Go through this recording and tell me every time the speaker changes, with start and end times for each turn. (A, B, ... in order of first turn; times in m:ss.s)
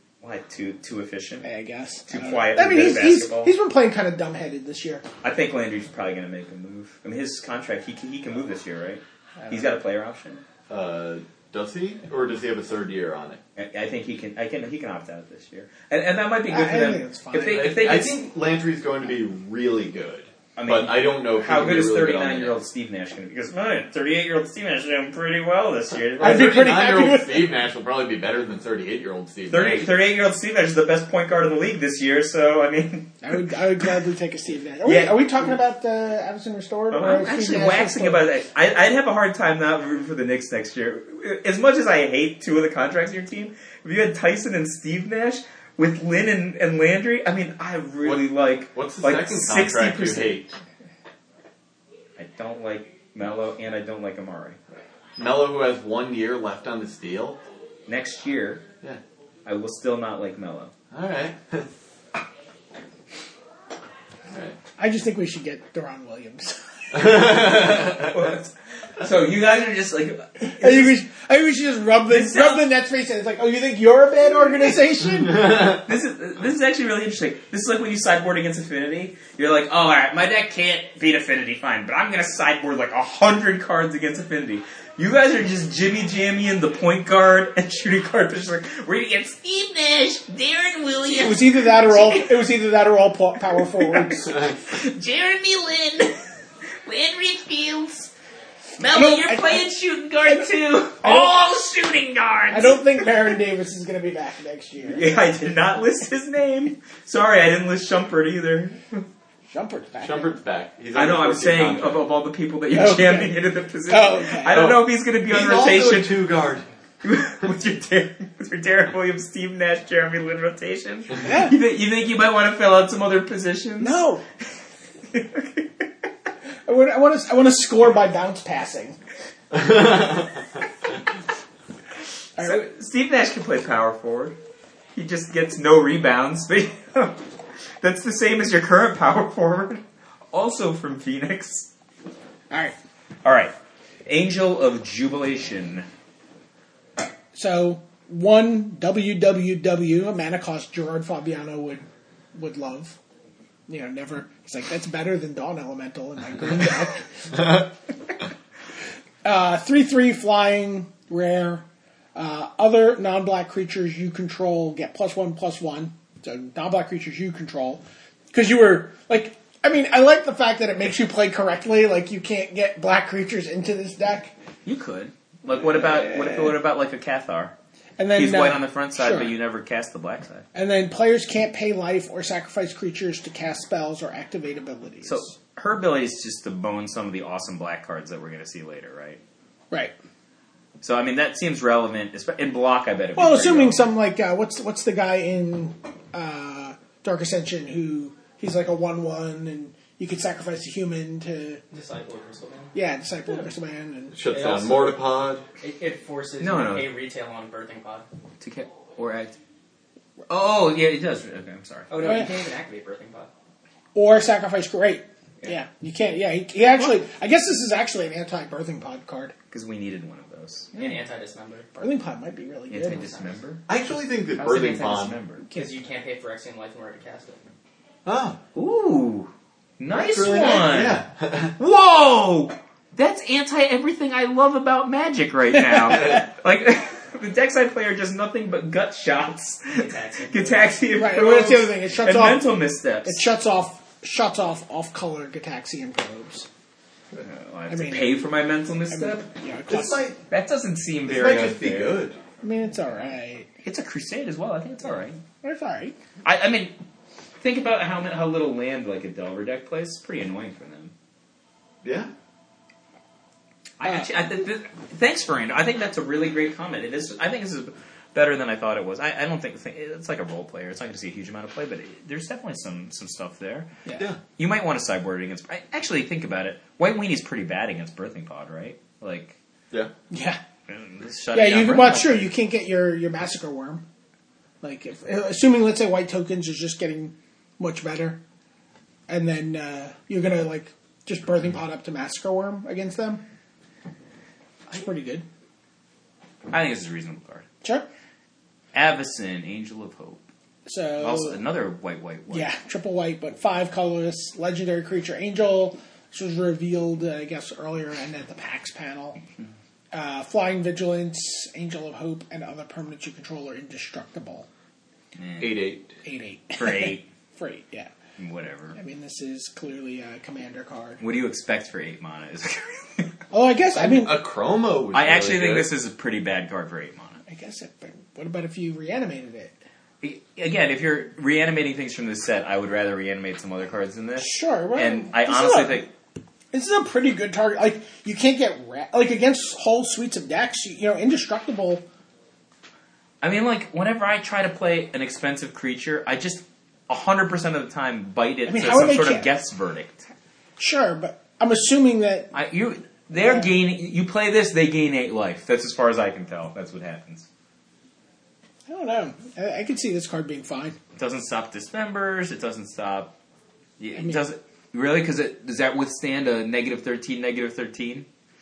0:00.2-0:01.4 A
0:01.4-0:05.0 B
0:02.1-0:03.5 A
0:05.2-0:10.4 A
0:09.4-0:09.6 B
0:10.7-0:13.4 C
0:13.6-0:18.2 A
0:16.5-0:17.9 B
0:17.4-0:22.6 C
0:20.6-0:26.6 A
0:26.2-0:29.9 C
0:26.2-0:27.5 B
0:29.5-0:33.4 A
0:33.2-0:38.2 B
0:34.8-0:35.5 A
0:36.9-0:50.4 A
0:48.0-0:50.5 C
0:52.2-0:54.6 A
0:55.2-0:57.4 C
0:57.9-0:58.6 A
0:59.4-1:00.7 A
1:00.9-1:01.7 C
1:04.3-1:04.6 C
1:04.8-1:07.3 B
1:06.9-1:08.1 C
1:08.0-1:11.0 A
1:10.4-1:15.6 B
1:12.1-1:12.6 A
1:15.7-1:32.4 A
1:31.1-1:34.4 B
1:33.8-1:36.2 A
1:36.8-1:38.1 A
1:38.8-1:43.3 A
1:38.8-1:39.6 B
1:41.0-1:41.4 B
1:42.5-1:45.2 B
1:44.8-1:49.0 A
1:49.5-1:50.3 B
1:50.0-1:52.0 C
1:50.9-1:56.2 A
1:52.7-1:54.6 B
1:54.5-1:56.6 C
1:57.0-2:04.0 A
2:01.2-2:01.6 B
2:03.8-2:04.2 B
2:05.1-2:05.8 A
2:06.6-2:09.0 B
2:09.5-2:10.4 C
2:12.4-2:12.6 B
2:12.4-2:14.4 A
2:14.9-2:17.2 A
2:17.8-2:21.7 A
2:23.2-2:23.5 A
2:24.0-2:25.9 A
2:27.3-2:33.0 B
2:33.7-2:37.7 B
2:39.2-2:41.6 B
2:42.1-2:54.3 B
2:54.6-2:57.5 A
2:55.6-2:56.5 B
2:58.0-2:59.3 B
2:58.1-3:00.4 A
3:00.5-3:05.3 B
3:05.0-3:09.2 A
3:10.8-3:13.8 A
3:13.2-3:21.6 B
3:21.7-3:22.7 D
3:22.7-3:24.2 B
3:24.1-3:25.4 C
3:24.3-3:25.0 D
3:25.6-3:28.0 D
3:26.4-3:26.9 A
3:28.4-3:29.4 A
3:30.3-3:31.9 A
3:31.9-3:33.3 D
3:32.0-3:32.3 B
3:33.9-3:39.3 B
3:39.5-3:40.8 A
3:40.7-3:41.7 D
3:41.8-3:43.2 B
3:42.7-3:43.6 A
3:43.7-3:45.2 C
3:44.3-3:45.4 A
3:45.5-3:45.8 B
3:45.5-3:47.4 D
3:48.0-3:48.4 C
3:48.5-3:51.0 A
3:49.9-3:51.5 C
3:51.6-4:03.2 A
3:59.7-4:00.7 D
4:01.0-4:06.5 B
4:07.2-4:09.3 A
4:07.7-4:08.2 B
4:08.9-4:10.0 B
4:09.7-4:10.2 C
4:10.3-4:12.0 A
4:11.0-4:12.2 C
4:12.4-4:13.5 B
4:13.6-4:15.2 A
4:15.4-4:16.0 B
4:16.2-4:16.7 A
4:17.4-4:20.9 A
4:21.8-4:22.1 C
4:23.8-4:33.7 A
4:34.4-4:39.4 A
4:40.1-4:40.4 B
4:40.7-4:42.3 A
4:41.3-4:43.8 B
4:44.6-4:48.2 B
4:49.1-4:53.2 B
4:54.7-4:55.2 B
4:56.5-4:57.4 A
4:58.7-5:00.2 A
5:00.6-5:01.4 B
5:01.0-5:02.5 A
5:02.3-5:09.2 B
5:09.9-5:14.5 B
5:15.2-5:15.6 A
5:15.4-5:15.9 C
5:16.0-5:17.9 B
5:16.6-5:17.1 A
5:18.2-5:18.8 A
5:18.7-5:21.0 B
5:21.0-5:23.1 A
5:23.3-5:24.2 B
5:23.7-5:25.7 C
5:24.9-5:27.2 A
5:27.3-5:29.5 B
5:30.0-5:35.9 A
5:34.2-5:35.9 B
5:36.5-5:41.8 B
5:43.2-5:50.0 A
5:48.4-5:49.3 B
5:50.6-5:52.3 B
5:52.3-5:57.3 A
5:53.1-5:53.5 B
5:58.7-6:00.8 B
6:00.9-6:03.1 A
6:03.8-6:08.1 A
6:04.0-6:04.2 B